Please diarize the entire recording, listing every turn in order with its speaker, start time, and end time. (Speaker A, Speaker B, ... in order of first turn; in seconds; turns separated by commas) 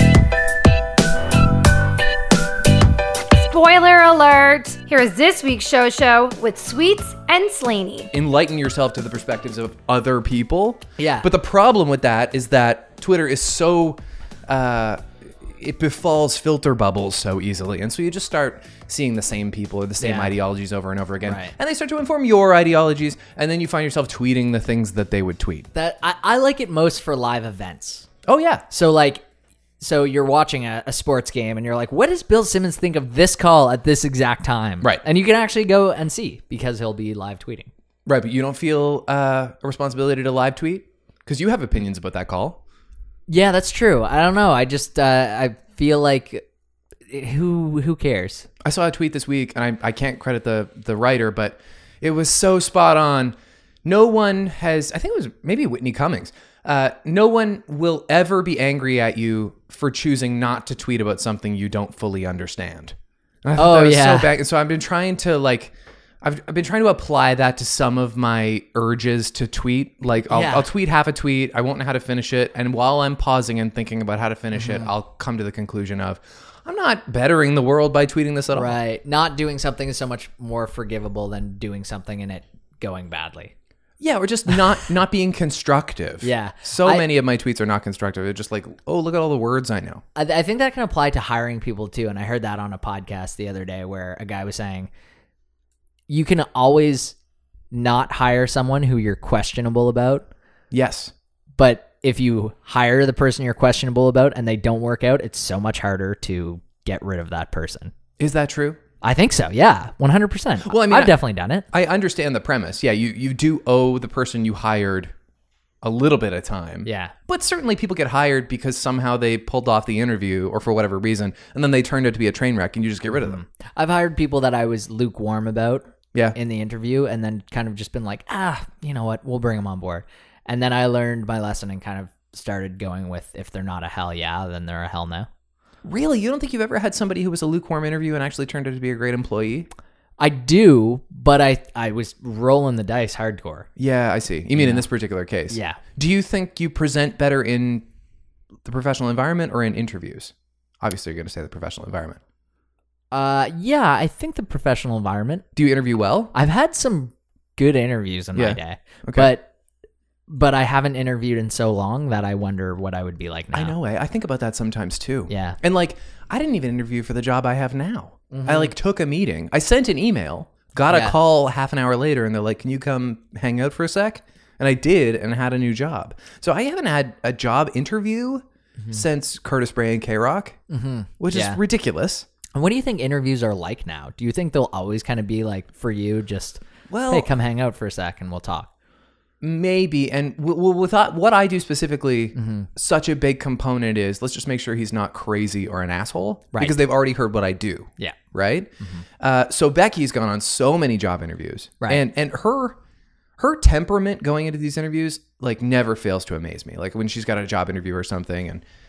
Speaker A: 3.4-8.1, Speaker B: 8.1-25.7, Speaker C: 11.0-11.3, Speaker C: 20.0-20.3, Speaker C: 21.2-21.5, Speaker C: 25.8-28.1, Speaker B: 28.3-28.6, Speaker C: 28.7-29.2, Speaker C: 29.8-37.7, Speaker B: 38.1-42.6, Speaker C: 43.3-46.4, Speaker C: 47.1-48.5, Speaker B: 48.6-78.8, Speaker C: 63.6-64.3, Speaker C: 70.3-70.7, Speaker C: 74.5-74.9, Speaker C: 78.5-83.5, Speaker B: 84.0-90.0, Speaker C: 86.2-87.1, Speaker C: 90.2-94.9, Speaker C: 96.1-97.2, Speaker C: 97.7-100.3, Speaker B: 100.7-101.1, Speaker C: 101.6-107.9, Speaker B: 108.2-108.8, Speaker C: 109.0-111.7, Speaker B: 110.6-111.2, Speaker B: 111.7-115.1, Speaker B: 115.8-123.4, Speaker C: 116.8-117.1, Speaker C: 123.2-135.3, Speaker B: 135.8-139.7, Speaker C: 140.2-143.7, Speaker B: 143.8-147.8, Speaker C: 144.6-144.8, Speaker C: 145.5-145.8, Speaker B: 148.7-152.2, Speaker C: 153.1-155.4, Speaker B: 155.6-156.3, Speaker C: 156.3-159.5, Speaker B: 158.3-159.3, Speaker C: 160.3-163.8, Speaker B: 163.5-180.6, Speaker C: 165.3-165.6, Speaker C: 168.3-168.7, Speaker C: 170.9-171.2, Speaker C: 180.7-181.6, Speaker B: 181.2-182.3, Speaker C: 182.6-188.7, Speaker B: 186.9-187.3, Speaker B: 189.4-202.8, Speaker C: 192.3-192.7, Speaker C: 196.5-196.8, Speaker C: 198.8-199.1, Speaker B: 203.4-208.6